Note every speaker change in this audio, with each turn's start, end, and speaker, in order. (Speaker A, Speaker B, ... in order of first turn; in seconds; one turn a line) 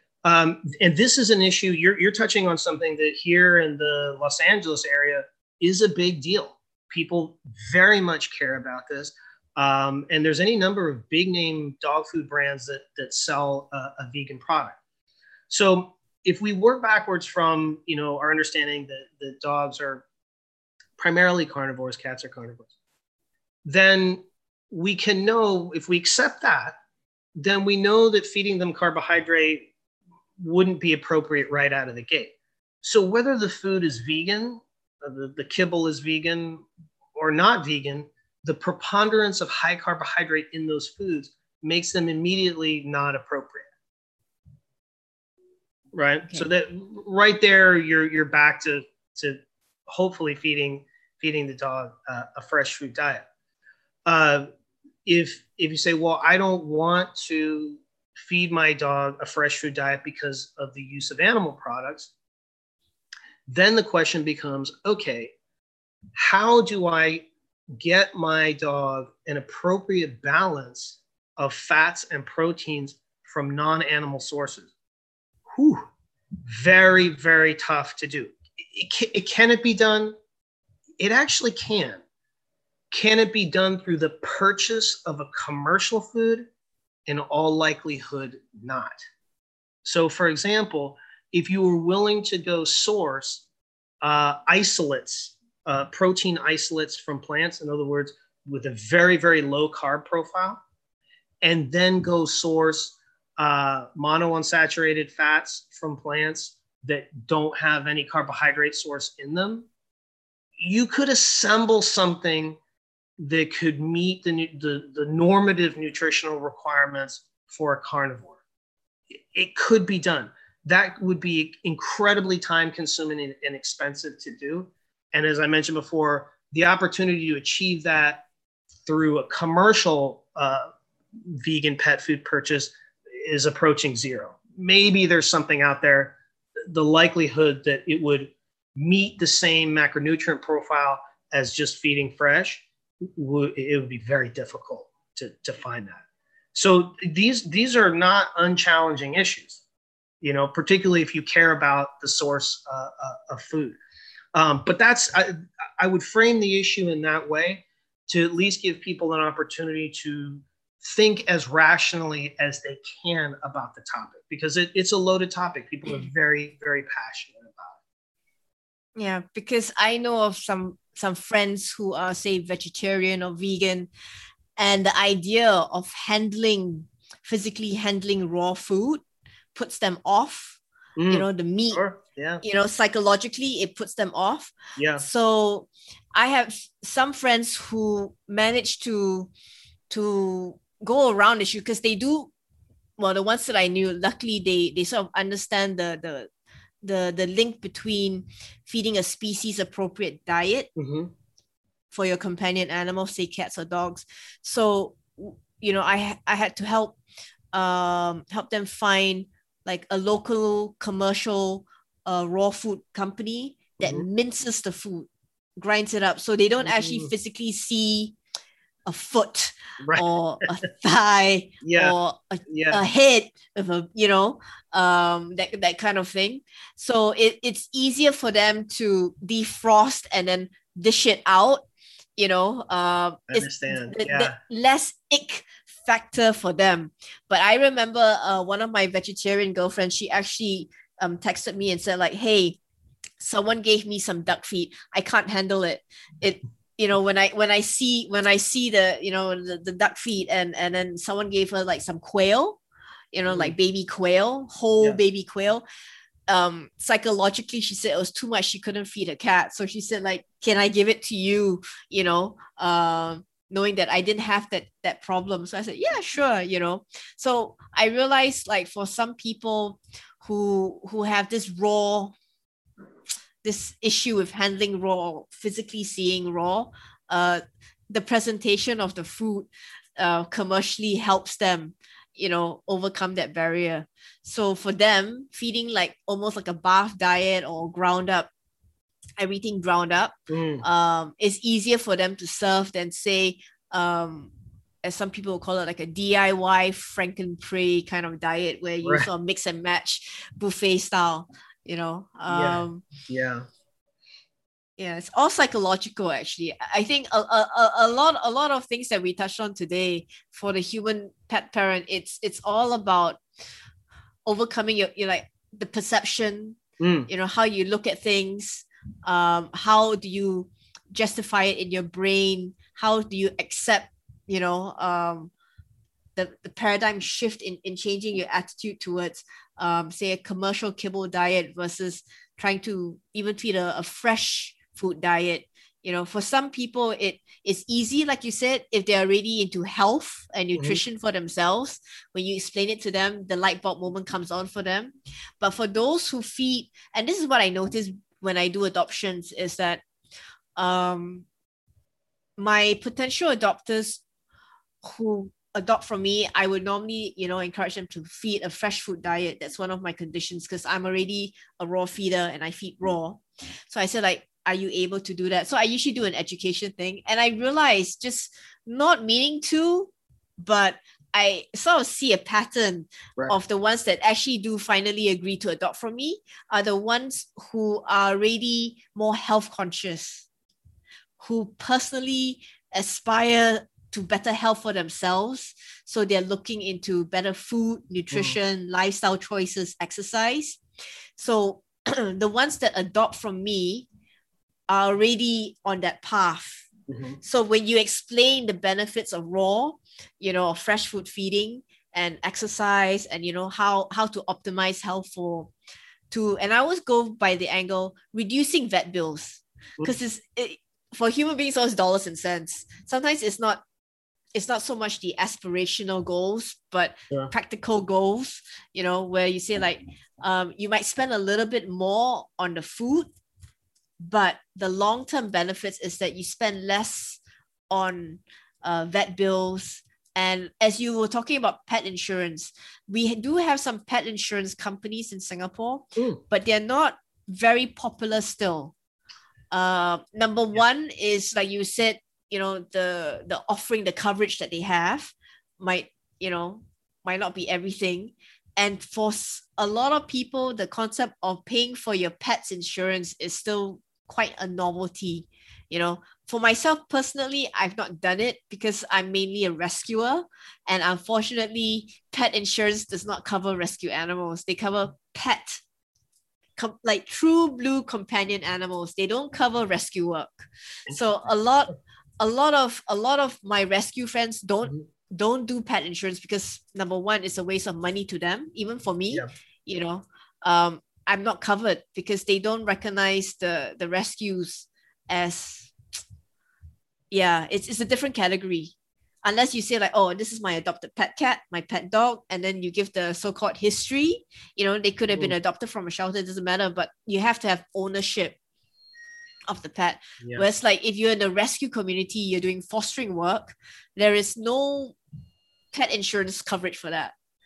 Speaker A: 0.2-14.8
Speaker A: 15.5-20.0
Speaker A: 21.0-22.7
Speaker A: 23.6-26.8
Speaker A: 27.4-29.7
Speaker A: 30.4-36.6
Speaker A: 37.1-43.7
Speaker A: 45.9-53.2
Speaker A: 54.0-54.5
Speaker A: 55.0-62.1
Speaker A: 63.5-65.3
Speaker A: 66.1-74.7
Speaker A: 75.5-75.8
Speaker A: 76.5-80.1
Speaker A: 81.0-82.0
Speaker A: 82.9-86.5
Speaker A: 87.1-89.0
Speaker A: 89.8-93.4
Speaker A: 94.0-100.6
Speaker A: 101.4-109.7
Speaker A: 110.6-112.6
Speaker A: 113.2-118.4
Speaker A: 119.3-128.2
Speaker A: 128.8-130.7
Speaker A: 131.2-136.2
Speaker A: 136.7-146.0
Speaker A: 146.5-149.6
Speaker A: 150.2-153.8
Speaker A: 154.3-167.8
Speaker B: 168.9-173.9
Speaker B: 174.6-179.0
Speaker B: 179.5-181.8
Speaker A: 181.0-182.4
Speaker B: 182.4-189.3
Speaker A: 184.8-185.0
Speaker B: 189.9-192.3
Speaker B: 193.0-196.3
Speaker B: 196.8-200.7
Speaker A: 200.8-201.1
Speaker B: 201.9-207.0
Speaker B: 207.5-218.2
Speaker A: 213.8-214.1
Speaker A: 216.6-217.1
Speaker B: 218.8-231.6
Speaker A: 219.8-220.1
Speaker A: 221.6-221.9
Speaker A: 222.5-222.8
Speaker B: 232.2-242.6
Speaker A: 233.3-234.3
Speaker B: 243.2-252.6
Speaker B: 253.1-255.6
Speaker A: 253.3-253.5
Speaker B: 256.3-272.1
Speaker B: 273.4-288.3
Speaker B: 289.2-294.3
Speaker A: 290.3-290.6
Speaker B: 294.8-302.9
Speaker A: 302.3-303.4
Speaker B: 304.8-313.2
Speaker B: 314.2-325.3
Speaker A: 316.8-317.1
Speaker B: 326.1-349.8
Speaker B: 350.6-351.2
Speaker B: 352.4-354.0
Speaker B: 354.8-380.2
Speaker B: 381.2-390.6
Speaker B: 391.2-393.9
Speaker B: 394.7-396.7
Speaker A: 396.9-397.2
Speaker B: 397.2-405.5
Speaker B: 406.1-413.6
Speaker B: 414.3-423.1
Speaker B: 424.0-427.2
Speaker B: 427.7-438.7
Speaker B: 439.5-465.6
Speaker B: 466.6-485.7
Speaker B: 487.1-488.7
Speaker B: 489.2-498.4
Speaker B: 499.5-505.0
Speaker B: 505.7-507.1